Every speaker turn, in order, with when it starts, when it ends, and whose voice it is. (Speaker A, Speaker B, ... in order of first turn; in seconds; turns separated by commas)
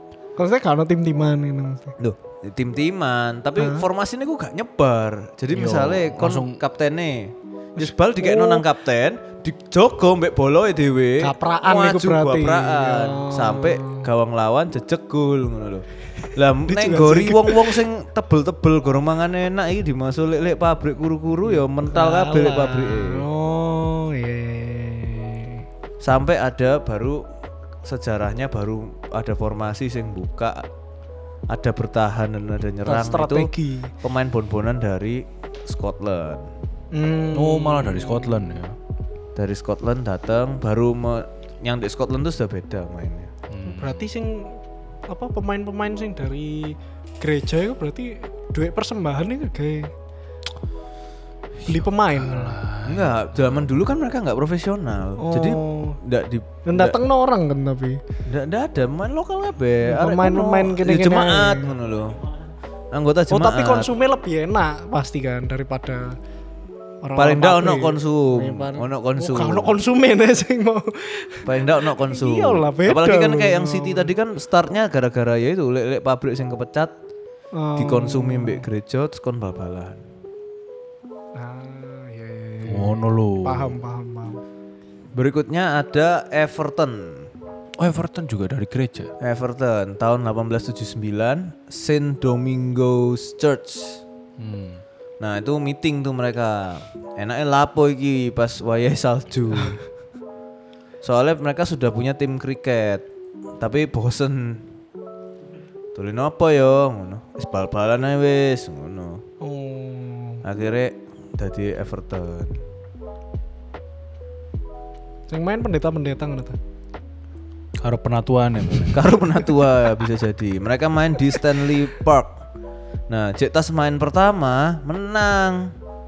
Speaker A: 0.4-1.9, Speaker B: 2.0-23.2, Speaker A: 3.6-3.9, Speaker C: 5.5-6.6, Speaker A: 7.8-8.7, Speaker A: 11.2-14.1, Speaker A: 16.7-17.8, Speaker A: 21.4-25.6, Speaker B: 26.0-27.2, Speaker B: 27.8-30.6, Speaker B: 31.5-36.5, Speaker A: 32.9-33.9, Speaker A: 36.9-38.6, Speaker C: 37.3-38.8, Speaker B: 39.4-43.3, Speaker C: 43.5-44.1, Speaker A: 43.6-49.9, Speaker C: 51.6-53.8, Speaker A: 51.7-52.6, Speaker B: 52.9-57.0, Speaker A: 55.2-56.0, Speaker A: 56.6-58.0, Speaker B: 58.2-62.2, Speaker A: 59.8-61.7, Speaker B: 62.9-63.9, Speaker A: 63.3-66.2, Speaker A: 67.0-74.1, Speaker B: 67.1-69.7, Speaker B: 71.4-76.9, Speaker A: 77.5-78.6, Speaker B: 77.8-80.0, Speaker A: 81.3-84.4, Speaker C: 82.6-83.8, Speaker B: 85.1-87.3, Speaker C: 87.8-89.1, Speaker B: 89.2-94.0, Speaker C: 94.4-94.8, Speaker B: 95.2-99.8, Speaker B: 101.0-103.0, Speaker B: 103.6-104.7, Speaker B: 105.9-109.2, Speaker A: 109.4-110.4, Speaker B: 110.4-112.6, Speaker A: 115.3-116.6, Speaker C: 117.8-119.1, Speaker B: 118.9-122.4, Speaker B: 123.1-125.7